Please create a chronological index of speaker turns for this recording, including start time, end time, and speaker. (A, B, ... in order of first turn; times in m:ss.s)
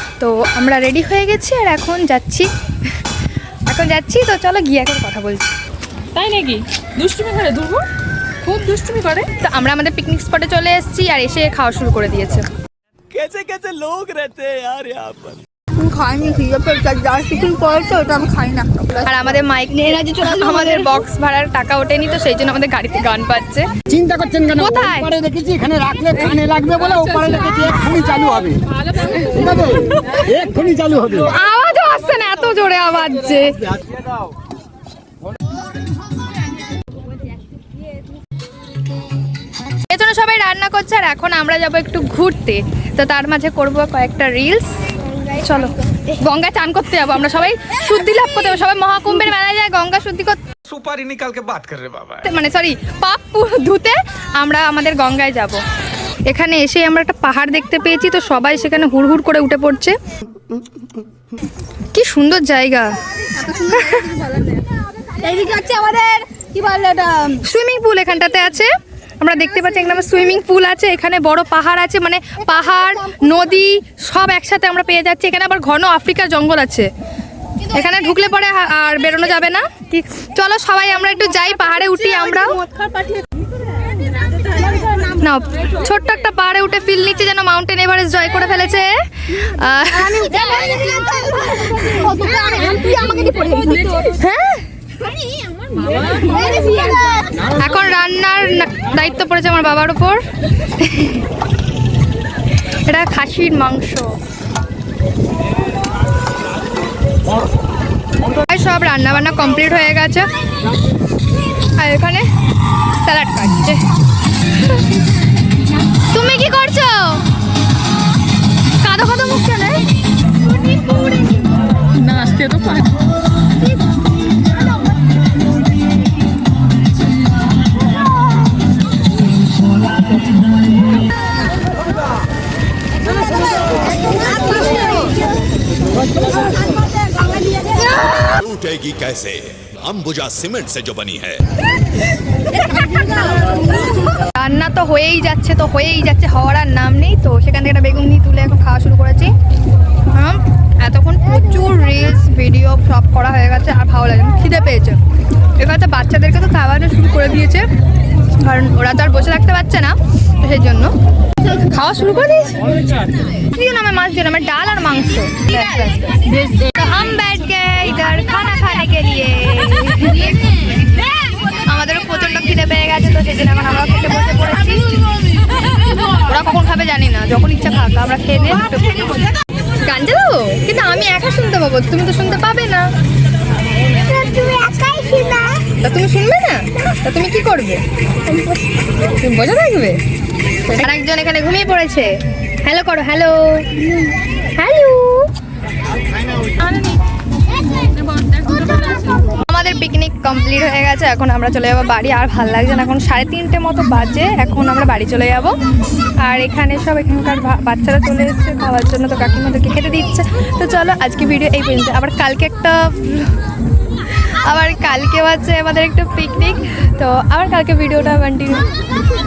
0:00.2-0:02.9 A
0:03.7-0:05.6 A
0:06.2-0:07.8 B
0:07.0-0:07.8 A
0:08.4-0:12.4 A
0:13.1-0:15.4 C
0:15.8-0:19.1 D
0:19.0-0:23.7 A
0:19.7-0:20.9 D
0:23.9-0:28.6 E
0:24.4-0:25.2 A
0:26.8-0:27.6 B
0:30.3-0:31.2 E
0:31.1-0:33.7 A
0:39.9-0:50.4 A
0:50.7-0:52.3 C
0:52.3-0:55.6 A
0:56.3-1:00.0 A
1:01.9-1:03.0 A
1:03.3-1:07.4 D
1:03.7-1:04.1 A
1:07.4-1:16.9 A
1:17.7-1:22.7 A
1:22.7-1:23.2 D
1:25.1-1:30.3 A
1:29.9-1:34.2 D
1:34.2-1:34.6 A
1:36.0-1:37.5 D
1:37.5-1:41.2 A
1:42.6-1:44.2 A
1:48.3-1:50.3 A
1:51.8-1:52.3 A
1:53.0-1:53.9 A
1:56.0-1:57.2 A
1:58.8-1:59.8 A
2:00.9-2:01.4 D
2:02.0-2:02.9 B
2:14.1-2:15.1 D
2:17.2-2:17.8 D
2:17.9-2:21.4 F
2:24.4-2:29.3 A
2:30.1-2:35.0 A
2:35.6-2:37.7 A
2:38.4-2:42.7 A
2:43.5-2:50.4 A
2:51.5-2:54.9 A
2:56.3-2:59.1 A
2:59.8-3:02.8 A
3:03.9-3:05.6 D
3:05.8-3:08.5 A
3:09.2-3:10.0 A
3:10.7-3:13.9 A
3:14.6-3:15.3 A
3:19.1-3:25.6 A
3:26.2-3:33.4 A
3:34.1-3:38.6 A